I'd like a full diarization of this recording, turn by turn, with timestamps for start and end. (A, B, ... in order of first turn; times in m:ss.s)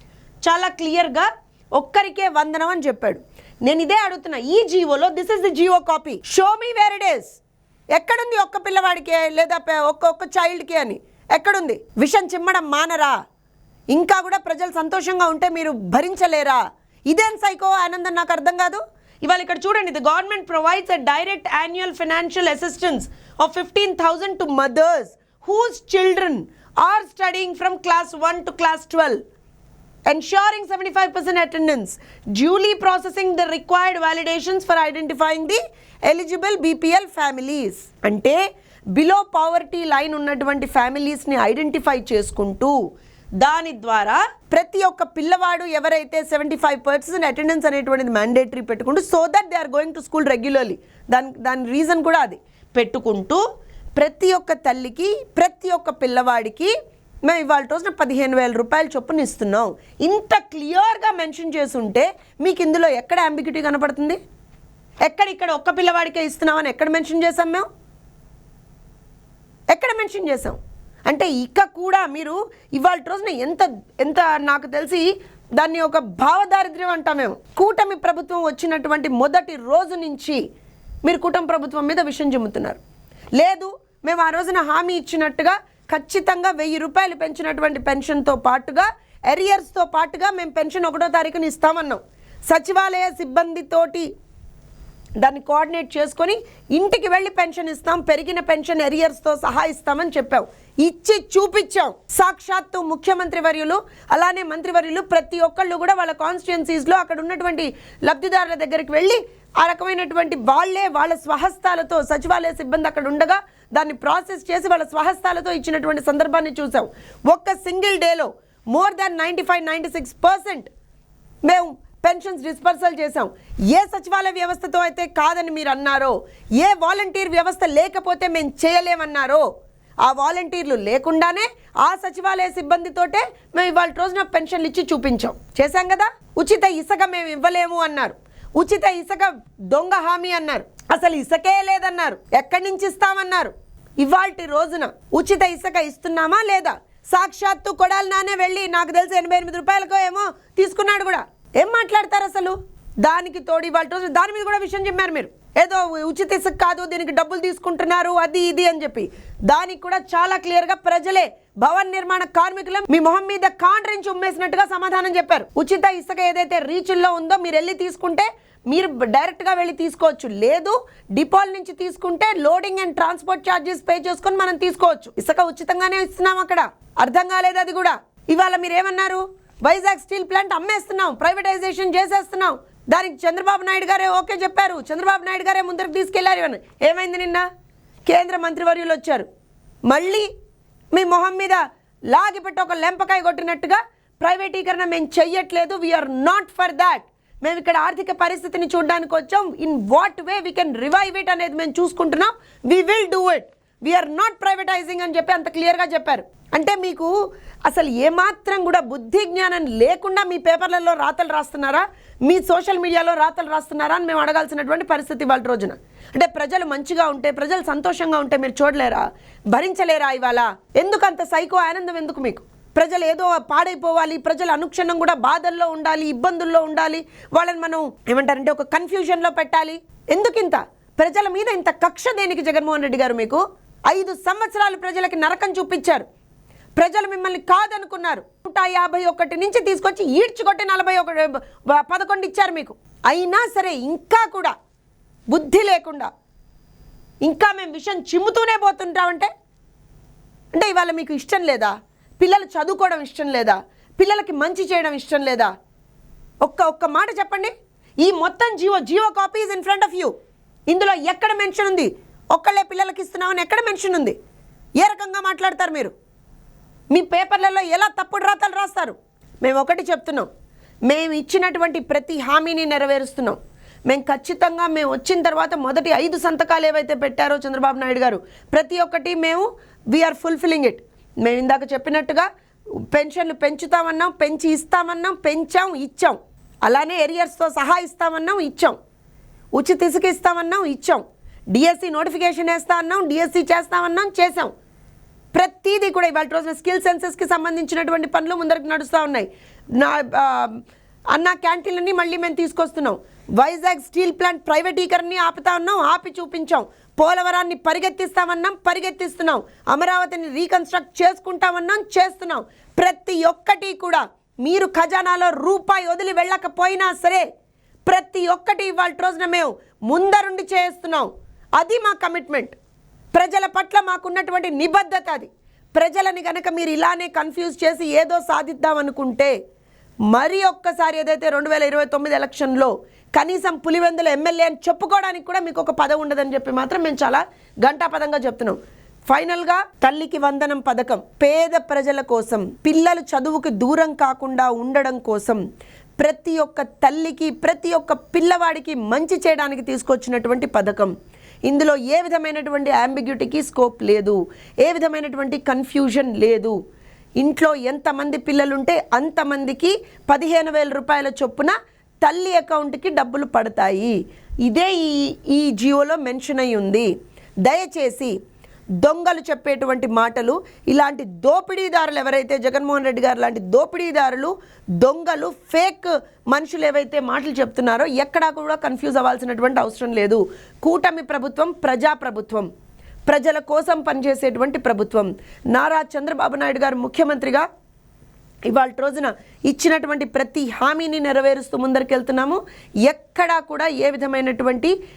0:00.4-0:07.4 A
0:07.9-0:13.2 A
0:13.9-0:29.2 A
0:30.1-0:38.4 A
0:38.9-0:42.8 A
0:43.4-0:53.4 A
0:54.0-1:04.2 A
1:05.0-1:07.7 A
1:09.7-1:20.4 A
1:21.0-1:22.8 A
1:23.4-1:34.1 A
1:35.2-2:00.7 A
2:01.4-2:09.4 A
2:10.0-3:07.4 A
3:08.1-3:09.2 A
3:09.9-3:10.3 A
3:10.9-3:27.1 A
3:27.7-3:56.0 A
3:56.8-4:04.5 A
4:05.3-4:06.1 A
4:07.2-4:09.3 A
4:10.5-4:15.5 A
4:16.4-4:20.1 A
4:20.7-4:24.2 A
4:24.8-4:25.9 A
4:26.9-4:30.3 A
4:30.9-4:42.3 A
4:42.9-4:48.8 A
4:49.6-4:54.5 A
4:55.3-5:00.6 A
5:01.1-5:17.3 A
5:17.8-5:22.6 A
5:23.1-5:29.4 A
5:30.1-5:45.4 A
5:46.0-5:50.9 A
5:51.4-5:56.6 A
5:57.2-6:06.9 A
6:07.4-6:08.2 A
6:08.8-6:22.5 A
6:23.1-6:27.4 A
6:28.5-6:34.7 A